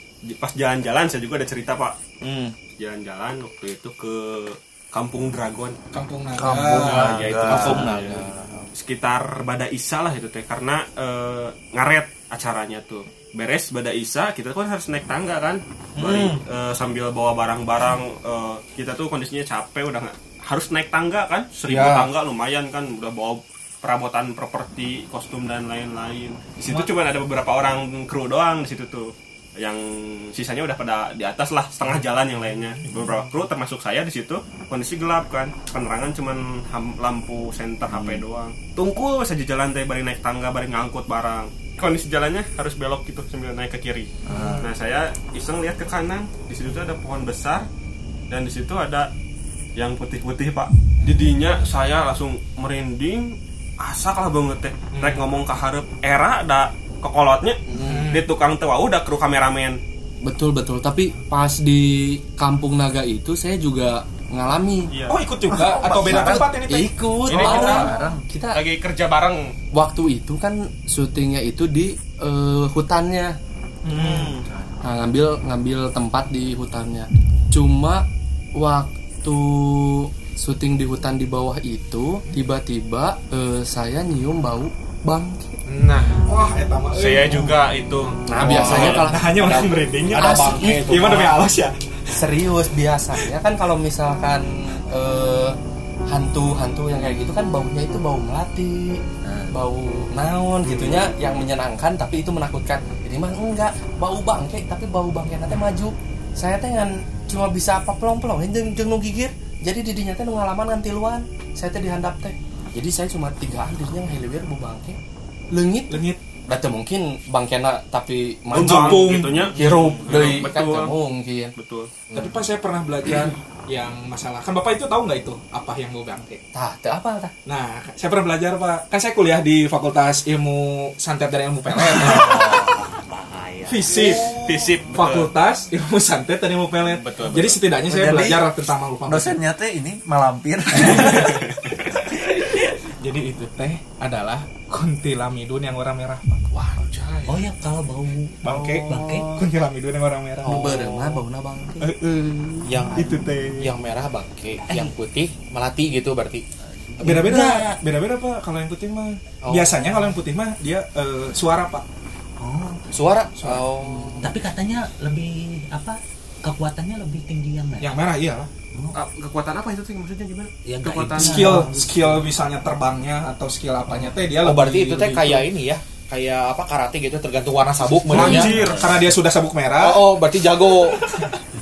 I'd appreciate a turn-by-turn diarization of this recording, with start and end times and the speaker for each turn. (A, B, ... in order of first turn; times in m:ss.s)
0:00.2-0:02.0 A
0:02.2-0:02.6 B
0:02.8-0:05.8 A
0:05.9-0:07.4 C
0:06.4-0:08.0 D
0:06.7-0:47.7 A
0:07.4-0:08.7 B
0:16.0-0:16.4 B
0:21.6-0:22.1 B
0:26.7-0:26.9 C
0:32.8-0:33.0 C
0:44.3-0:44.7 D
0:44.3-0:44.7 C
0:48.3-0:49.1 A
0:49.8-0:59.8 A
0:54.9-0:55.2 C
0:57.7-0:58.1 B
0:57.8-0:58.3 C
1:00.2-1:04.9 E
1:04.9-1:05.2 A
1:05.1-1:07.9 C
1:05.5-1:08.6 E
1:05.8-1:06.4 B
1:06.1-1:06.4 D
1:07.3-1:07.9 A
1:07.6-1:08.3 D
1:08.5-1:09.5 A
1:09.7-1:13.4 E
1:13.8-1:14.4 C
1:13.9-1:14.4 B
1:14.5-1:14.7 D
1:14.8-1:18.0 E
1:18.6-1:25.6 E
1:25.7-1:26.2 A
1:26.1-1:27.6 C
1:26.9-1:29.0 A
1:28.3-1:31.3 E
1:28.4-1:31.8 C
1:28.5-1:31.4 B
1:32.1-1:35.6 E
1:36.1-1:55.0 E
1:39.2-1:39.5 D
1:40.7-1:41.0 A
1:55.5-2:01.5 E
1:55.9-1:56.2 C
1:58.5-2:01.0 A
1:58.5-2:00.4 C
2:01.6-2:02.0 A
2:02.1-2:06.4 C
2:06.5-2:07.3 E
2:07.5-2:12.6 C
2:11.8-2:14.1 F
2:13.7-2:19.4 C
2:13.9-2:14.9 B
2:14.2-2:15.3 A
2:16.8-2:17.6 A
2:17.9-2:18.5 D
2:19.1-2:21.5 D
2:20.7-2:26.5 C
2:21.1-2:21.8 A
2:26.8-2:27.4 A
2:27.2-2:29.4 F
2:28.4-2:30.8 C
2:30.4-2:31.2 B
2:30.4-2:31.9 E
2:31.8-2:33.7 C
2:32.6-2:36.4 B
2:34.7-2:34.9 F
2:36.9-2:37.8 F
2:37.0-2:41.8 C
2:39.5-2:40.0 B
2:42.4-2:42.8 F
2:42.9-2:44.4 B
2:43.4-2:43.7 C
2:44.2-2:48.0 F
2:47.8-2:48.5 C
2:48.9-2:51.6 A
2:50.6-2:52.2 F
2:51.2-2:55.5 C
2:54.4-2:58.6 B
2:58.1-3:00.2 C
2:58.1-2:58.9 A
2:58.2-2:59.1 F
2:59.8-3:01.2 B